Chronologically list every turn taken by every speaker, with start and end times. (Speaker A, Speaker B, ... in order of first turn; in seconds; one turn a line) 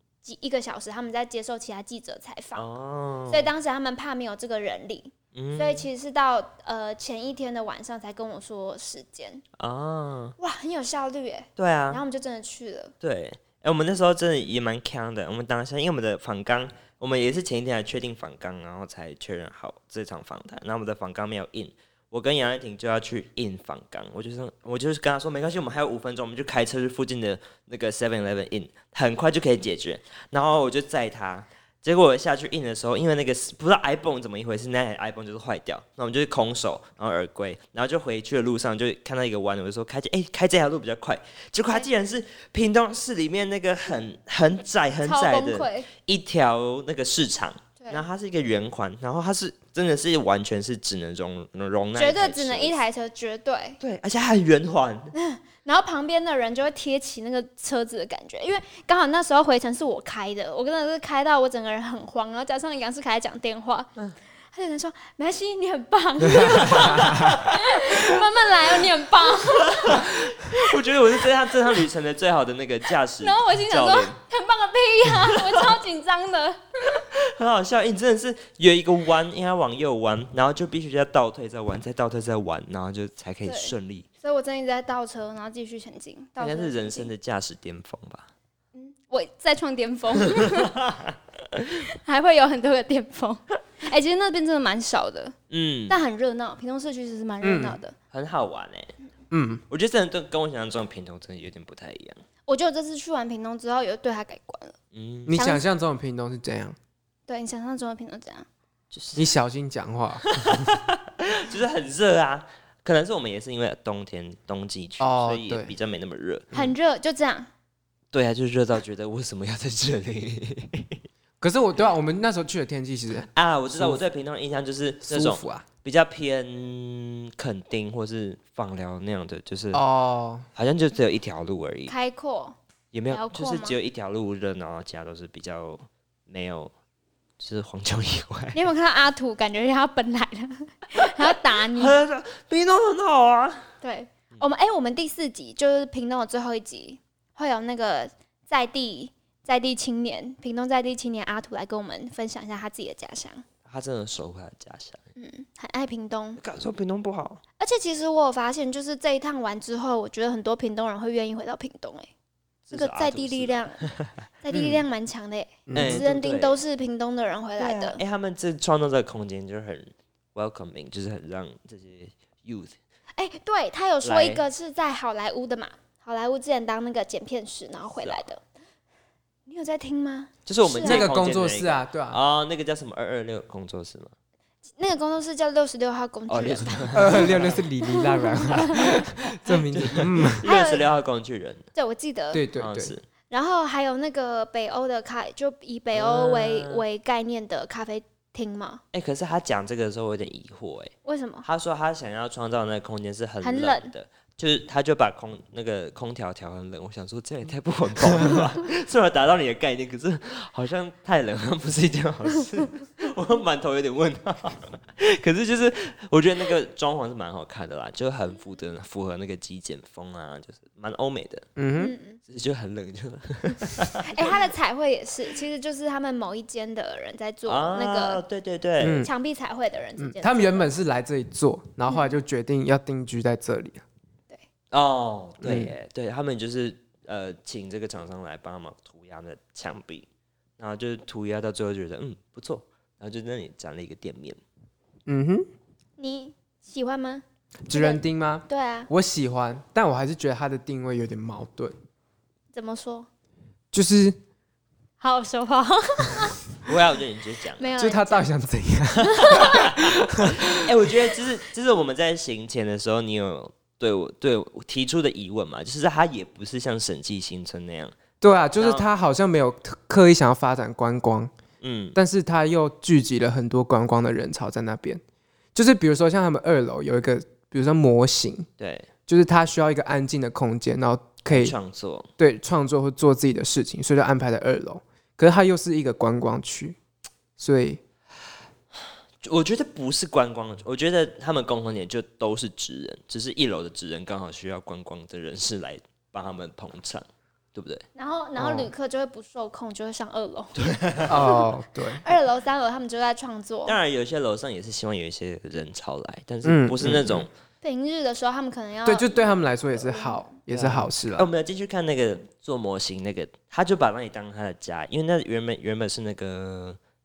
Speaker A: 0.2-2.7
Speaker B: 2.5-3.5
Speaker A: 3.3-9.4
Speaker B: 5.3-5.9
Speaker B: 9.6-10.3
Speaker A: 10.4-12.9
Speaker B: 11.6-12.0
Speaker B: 13.0-52.8
Speaker A: 45.0-45.9
Speaker A: 51.9-53.8
Speaker B: 53.8-55.1
Speaker A: 55.1-63.9
Speaker A: 64.5-70.6
Speaker C: 66.2-67.4
Speaker B: 66.6-67.5
Speaker B: 69.4-74.2
Speaker A: 73.2-76.6
Speaker B: 75.2-75.7
Speaker B: 76.9-84.1
Speaker A: 83.5-87.1
Speaker B: 86.4-88.3
Speaker A: 88.7-90.7
Speaker A: 91.9-95.3
Speaker B: 95.5-96.0
Speaker A: 95.9-97.9
Speaker C: 97.4-97.8
Speaker B: 98.1-98.9
Speaker C: 99.3-99.6
Speaker B: 99.7-102.2
Speaker A: 102.5-104.8
Speaker B: 104.9-105.4
Speaker C: 105.3-106.8
Speaker A: 105.3-105.6
Speaker A: 107.3-108.5
Speaker B: 108.9-109.3
Speaker C: 109.1-110.3
Speaker B: 110.3-116.5
Speaker C: 115.0-115.7
Speaker A: 116.5-117.5
Speaker B: 118.1-121.0
Speaker C: 121.4-124.0
Speaker B: 123.3-129.8
Speaker C: 125.0-125.7
Speaker C: 129.7-130.5
Speaker B: 130.6-131.9
Speaker A: 131.9-132.6
Speaker B: 132.9-136.7
Speaker A: 133.1-133.8
Speaker B: 137.4-138.6
Speaker A: 138.5-142.0
Speaker B: 141.3-143.7
Speaker A: 143.8-153.4
Speaker B: 153.7-155.0
Speaker A: 155.2-156.4
Speaker B: 156.4-157.4
Speaker A: 157.6-162.1
Speaker B: 162.7-164.1
Speaker A: 162.7-163.9
Speaker A: 164.4-168.0
Speaker C: 164.5-164.8
Speaker C: 165.7-166.0
Speaker B: 165.7-166.6
Speaker B: 167.6-172.8
Speaker A: 173.1-178.4
Speaker B: 174.0-174.4
Speaker B: 178.0-178.2
Speaker A: 179.5-181.1
Speaker B: 180.4-184.1
Speaker C: 180.8-182.2
Speaker A: 184.8-188.7
Speaker B: 186.3-187.6
Speaker C: 186.9-190.4
Speaker B: 189.7-191.6
Speaker A: 190.4-190.8
Speaker A: 191.7-192.4
Speaker C: 192.3-192.9
Speaker B: 192.5-193.0
Speaker A: 193.3-198.8
Speaker B: 195.9-196.8
Speaker B: 198.9-200.9
Speaker A: 201.0-201.4
Speaker B: 201.4-221.4
Speaker A: 203.4-203.9
Speaker C: 221.6-221.9
Speaker A: 221.8-222.2
Speaker B: 222.3-224.4
Speaker A: 224.1-228.2
Speaker B: 227.4-229.1
Speaker C: 228.8-229.1
Speaker A: 229.0-230.7
Speaker C: 230.0-233.8
Speaker A: 231.9-232.2
Speaker B: 234.7-240.1
Speaker C: 235.4-235.7
Speaker B: 240.6-244.4
Speaker C: 245.1-245.5
Speaker A: 246.0-248.9
Speaker C: 247.7-251.7
Speaker A: 252.5-253.1
Speaker C: 253.7-254.2
Speaker A: 255.0-256.4
Speaker B: 256.6-257.7
Speaker A: 257.6-258.3
Speaker C: 257.8-260.5
Speaker B: 259.0-259.6
Speaker A: 259.2-259.5
Speaker B: 260.5-267.9
Speaker C: 268.2-271.3
Speaker B: 268.6-268.9
Speaker B: 271.6-272.0
Speaker C: 271.9-275.0
Speaker C: 275.5-278.5
Speaker B: 278.6-278.9
Speaker C: 279.1-281.6
Speaker B: 281.2-282.1
Speaker C: 282.2-286.8
Speaker C: 287.4-287.8
Speaker B: 289.2-297.0
Speaker B: 297.5-297.8
Speaker A: 297.9-300.5
Speaker C: 298.4-298.7
Speaker B: 300.6-301.3
Speaker C: 301.1-302.0
Speaker A: 301.1-303.8
Speaker B: 303.6-307.3
Speaker C: 306.4-307.3
Speaker A: 307.6-310.3
Speaker C: 308.9-311.3
Speaker B: 310.5-316.8